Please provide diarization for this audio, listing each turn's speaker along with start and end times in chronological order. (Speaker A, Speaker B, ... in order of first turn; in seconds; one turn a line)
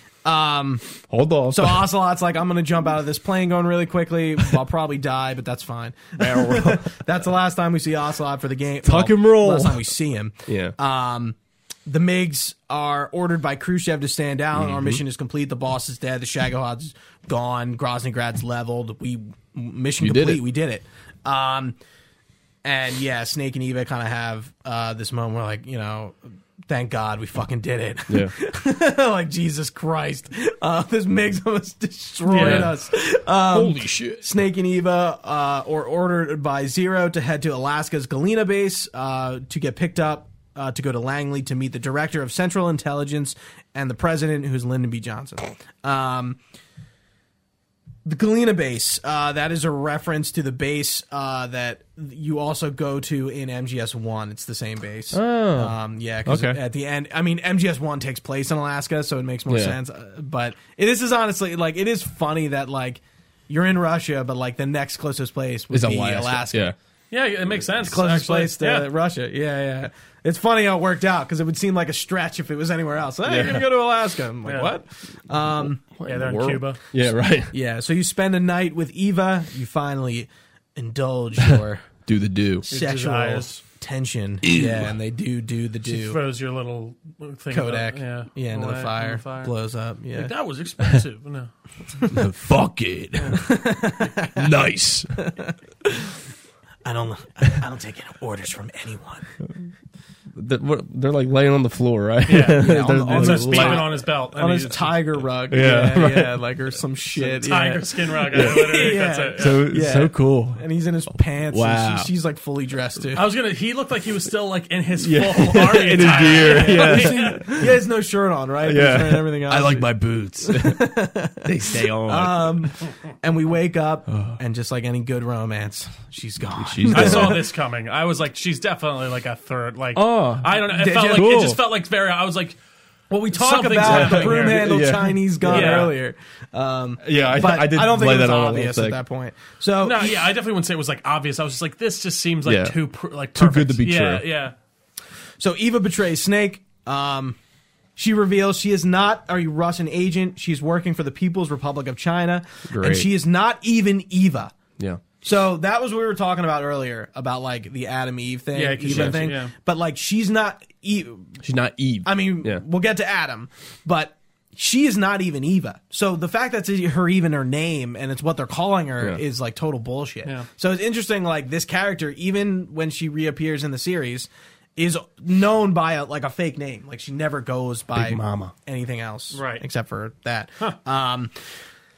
Speaker A: 0.2-0.9
Speaker B: 1.1-1.9
Speaker A: 1.5-21.8
Speaker B: 6.2-6.9
Speaker B: 8.8-9.8
Speaker B: 10.5-10.8
Speaker B: 14.6-15.0
Speaker B: 20.0-20.4
Speaker A: 22.6-46.4
Speaker C: 32.3-32.7
Speaker B: 32.4-32.7
Speaker B: 33.5-34.2
Speaker A: 48.0-66.8
Speaker B: 55.1-55.8
Speaker B: 56.3-56.6
Speaker B: 59.5-59.8
Speaker B: 65.7-66.8
Speaker C: 67.1-68.9
Speaker A: 67.8-75.8
Speaker B: 73.3-73.7
Speaker C: 74.5-74.7
Speaker B: 75.8-77.5
Speaker C: 76.0-76.8
Speaker A: 77.5-81.9
Speaker B: 82.1-82.7
Speaker A: 82.7-86.2
Speaker C: 82.7-83.6
Speaker B: 84.4-84.9
Speaker C: 85.9-89.5
Speaker A: 87.5-90.3
Speaker C: 90.1-91.5
Speaker B: 92.1-93.6
Speaker A: 93.3-94.5
Speaker B: 94.3-95.1
Speaker A: 95.2-96.2
Speaker A: 96.8-99.3
Speaker B: 100.3-103.9
Speaker C: 102.3-105.0
Speaker A: 102.5-113.2
Speaker B: 105.5-106.4
Speaker C: 107.4-109.7
Speaker B: 108.3-108.7
Speaker B: 109.4-110.6
Speaker B: 111.5-112.1
Speaker C: 113.1-117.5
Speaker B: 115.0-117.7
Speaker A: 115.9-127.5
Speaker B: 118.7-120.9
Speaker B: 121.4-122.7
Speaker B: 124.1-124.4
Speaker B: 126.6-127.4
Speaker C: 126.9-132.6
Speaker B: 130.0-131.6
Speaker A: 130.7-131.5
Speaker A: 133.1-140.3
Speaker C: 133.3-134.8
Speaker B: 133.8-135.9
Speaker C: 135.4-135.9
Speaker B: 137.0-139.0
Speaker C: 139.8-144.6
Speaker B: 142.5-142.8
Speaker B: 143.3-144.2
Speaker A: 145.4-147.4
Speaker A: 148.0-154.6
Speaker B: 152.7-153.1
Speaker A: 155.2-161.4
Speaker C: 158.5-159.5
Speaker B: 158.9-159.2
Speaker B: 161.4-162.6
Speaker A: 162.1-181.3
Speaker B: 177.9-178.5
Speaker C: 179.3-179.6